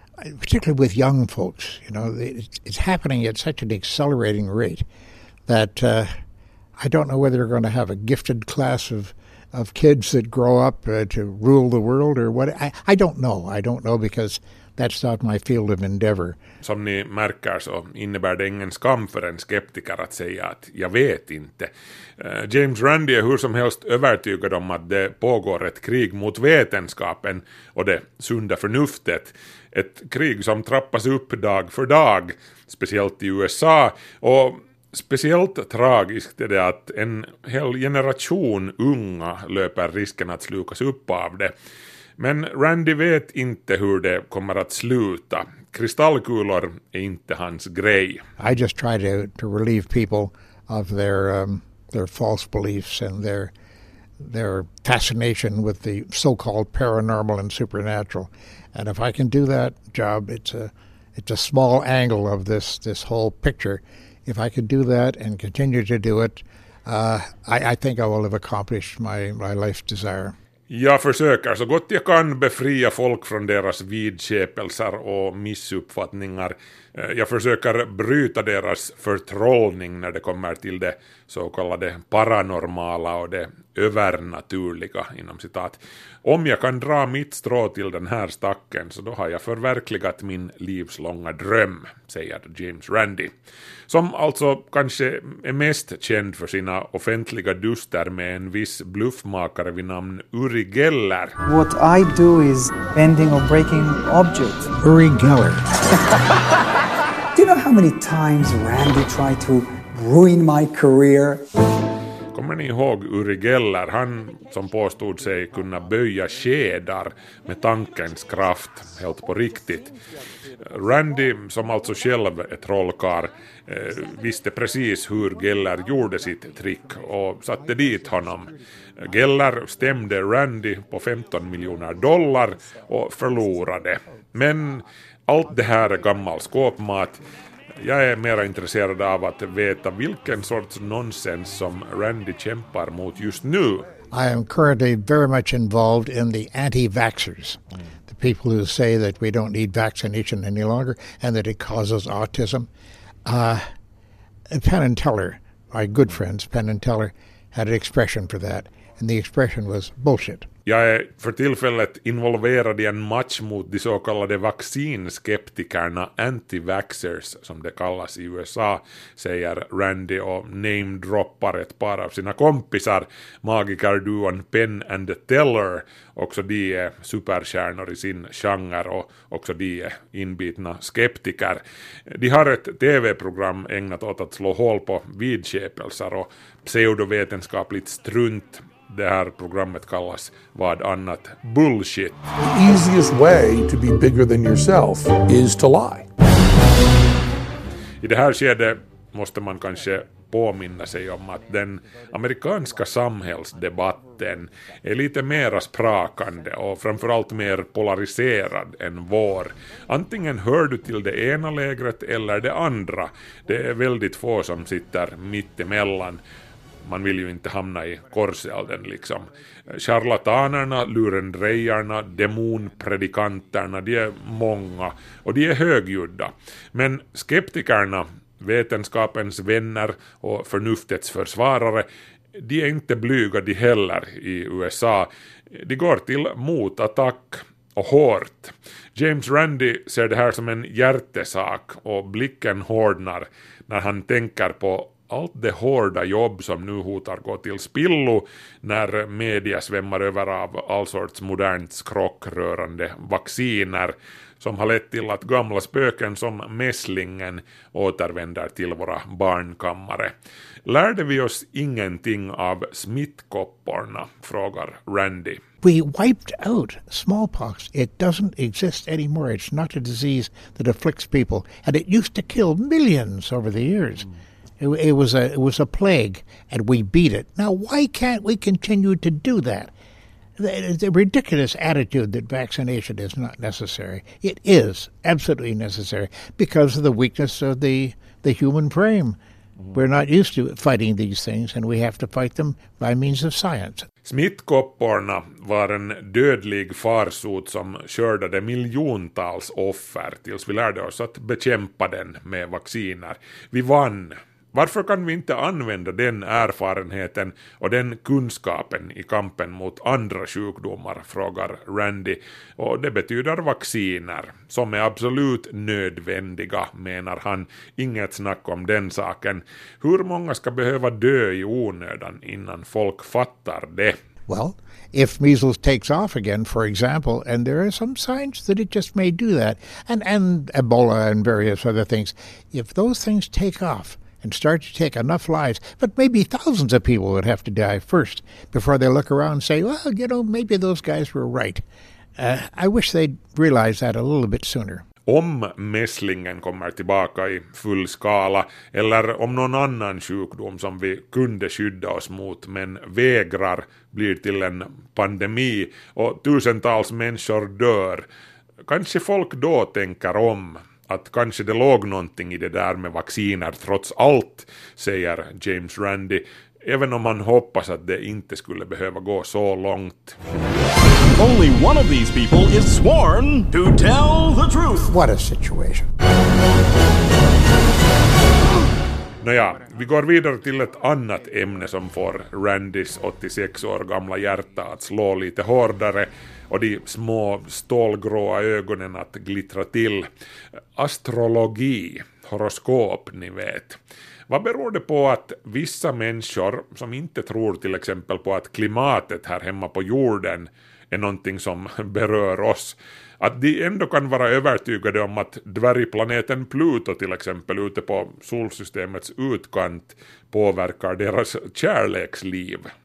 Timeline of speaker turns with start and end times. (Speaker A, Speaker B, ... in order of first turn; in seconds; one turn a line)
Speaker A: 0.2-4.8
Speaker A: 5.5-6.1
Speaker A: 6.8-16.4
Speaker B: 16.6-41.5
Speaker B: 42.2-48.2
Speaker A: 48.4-53.5
Speaker A: 54.2-70.3
Speaker B: 70.7-93.3
Speaker B: 93.9-101.4
Speaker C: 101.4-104.8
Speaker A: 104.8-105.6
Speaker C: 107.3-111.4
Speaker B: 112.3-119.9
Speaker B: 120.7-137.2
Speaker B: 137.8-143.9
Speaker A: 144.1-152.7
Speaker A: 153.2-153.7
Speaker A: 154.5-160.5
Speaker B: 160.7-192.1
Speaker D: 192.4-196.1
Speaker B: 198.0-216.2
Speaker B: 216.8-260.1
Speaker B: 260.7-265.4
Speaker A: 265.6-274.1
Speaker A: 274.6-279.7
Speaker A: 280.4-289.2
Speaker A: 289.7-293.9
Speaker B: 294.0-324.0
Speaker A: 324.3-341.6
Speaker A: 342.2-344.8
Speaker B: 345.1-358.1
Speaker B: 358.6-370.2
Speaker E: 371.1-374.9
Speaker A: 374.9-375.9
Speaker B: 379.2-390.1
Speaker B: 390.8-393.8
Speaker B: 394.3-412.7